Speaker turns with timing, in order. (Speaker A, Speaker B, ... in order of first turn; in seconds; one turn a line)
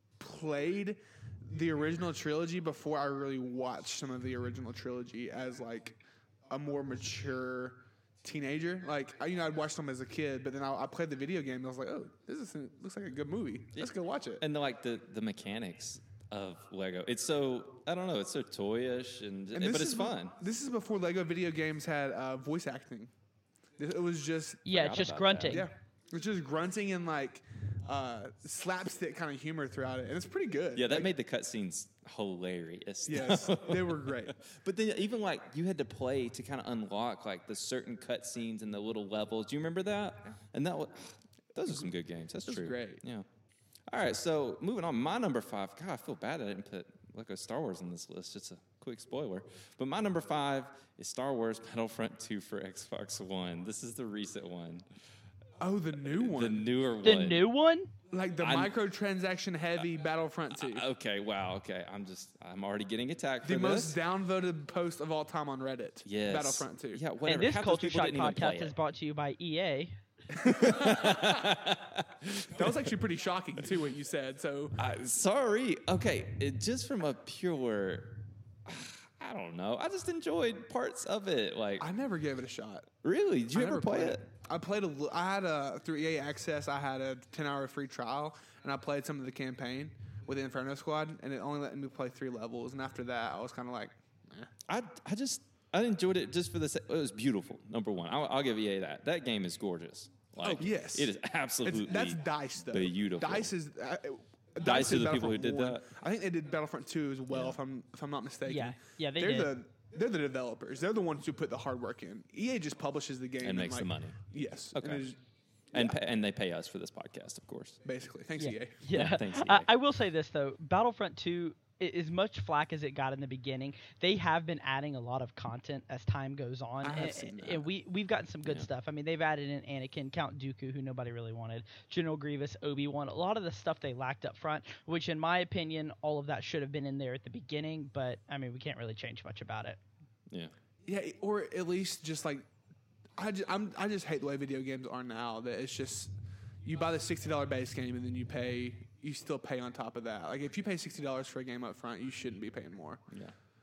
Speaker A: 0.2-14.4
Speaker B: 13.8-20.4
Speaker A: 19.5-23.1
Speaker A: 23.8-24.7
Speaker C: 24.6-25.7
Speaker B: 24.7-25.6
Speaker A: 25.5-31.1
Speaker B: 30.8-43.3
Speaker A: 33.1-34.4
Speaker A: 42.5-43.0
Speaker B: 43.9-54.9
Speaker A: 55.6-56.7
Speaker B: 56.0-57.5
Speaker C: 57.0-57.9
Speaker A: 58.1-60.9
Speaker B: 58.4-58.7
Speaker B: 60.6-64.0
Speaker A: 63.4-67.0
Speaker B: 66.1-68.7
Speaker C: 67.2-70.0
Speaker A: 70.4-71.3
Speaker B: 70.4-72.8
Speaker A: 72.5-74.8
Speaker B: 74.8-78.1
Speaker B: 78.7-81.9
Speaker A: 81.8-82.9
Speaker B: 83.0-84.2
Speaker A: 83.5-94.5
Speaker B: 94.7-103.5
Speaker A: 100.4-115.2
Speaker B: 104.6-105.8
Speaker B: 107.3-107.6
Speaker C: 108.5-109.5
Speaker B: 113.4-114.2
Speaker B: 114.7-115.0
Speaker A: 115.7-116.0
Speaker B: 115.7-117.8
Speaker A: 117.8-118.8
Speaker C: 118.4-139.8
Speaker B: 118.9-119.7
Speaker A: 126.8-127.7
Speaker A: 140.9-142.5
Speaker A: 143.2-146.1
Speaker A: 146.6-153.0